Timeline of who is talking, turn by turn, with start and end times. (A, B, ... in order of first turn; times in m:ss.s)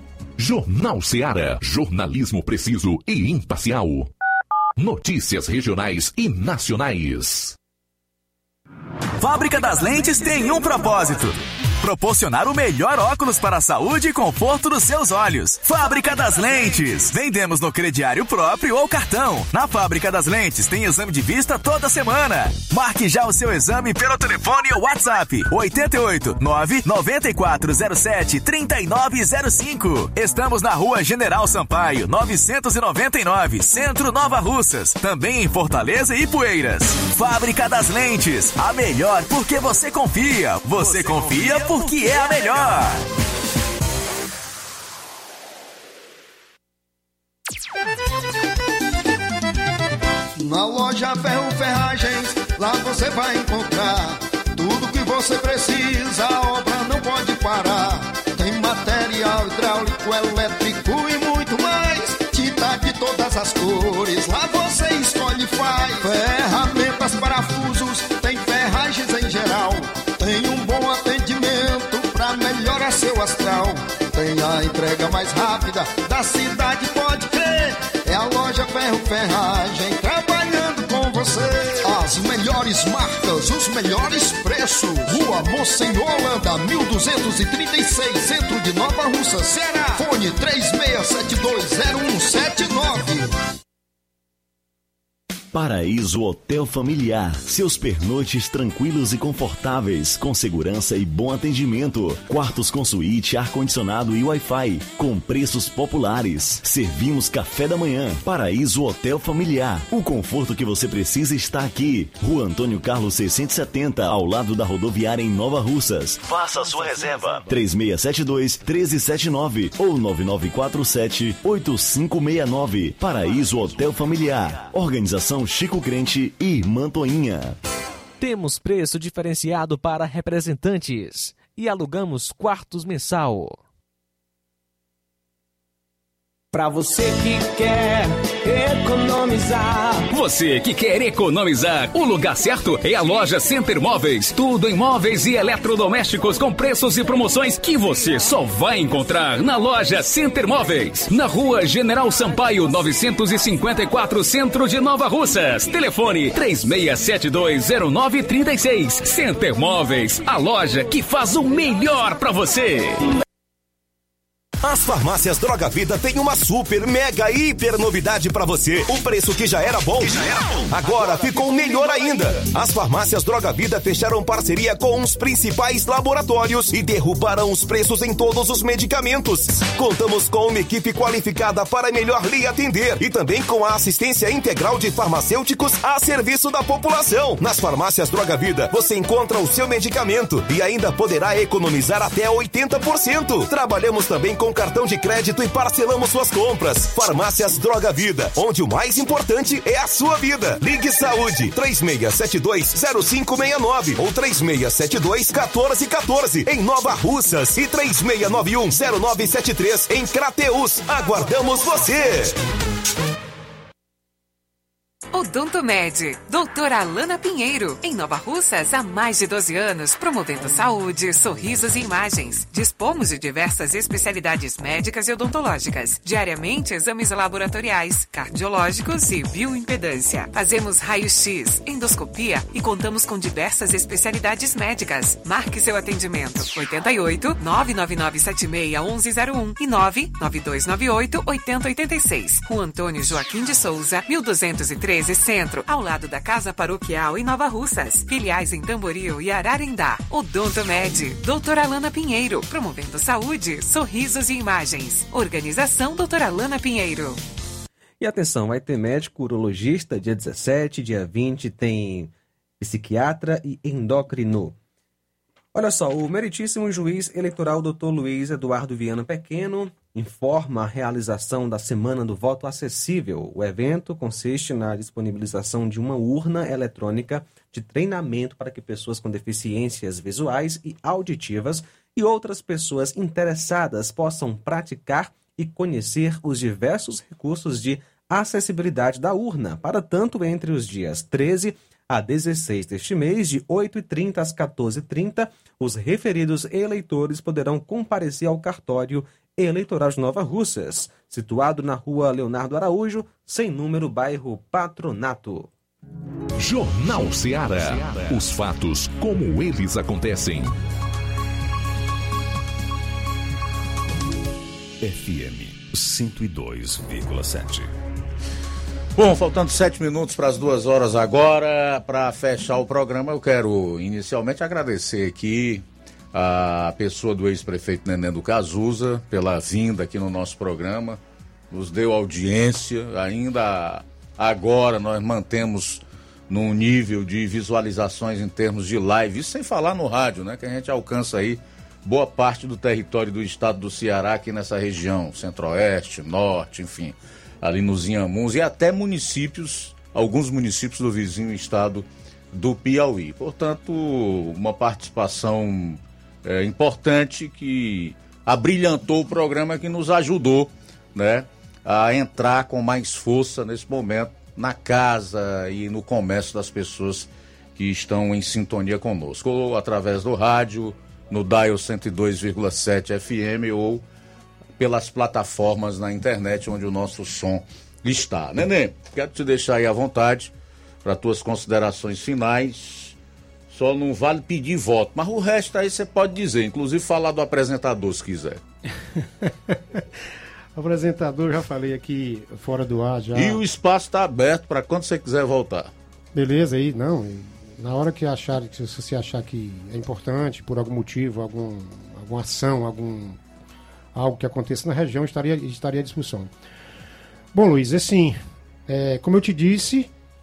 0:00.4-0:04.1 A
0:04.8-0:07.6 A
0:09.2-0:43.0 B
0:50.4-1:33.3 C
1:35.5-2:07.6 D
2:08.2-2:13.6 E
2:16.6-2:18.0 F
2:18.9-2:20.0 F
2:20.1-2:43.0 G
2:44.6-3:32.4 H
3:35.1-4:17.2 I
4:18.0-4:24.6 E
4:25.5-5:05.5 E
5:06.4-5:10.6 A
5:19.0-6:13.8 J
6:14.6-6:20.3 J
6:20.8-6:23.0 J
6:23.5-6:28.4 J
6:29.2-6:29.8 K
6:30.6-6:33.4 K
6:33.1-6:35.7 J
6:36.1-6:43.2 K
6:44.0-6:46.3 K
6:47.3-6:49.9 K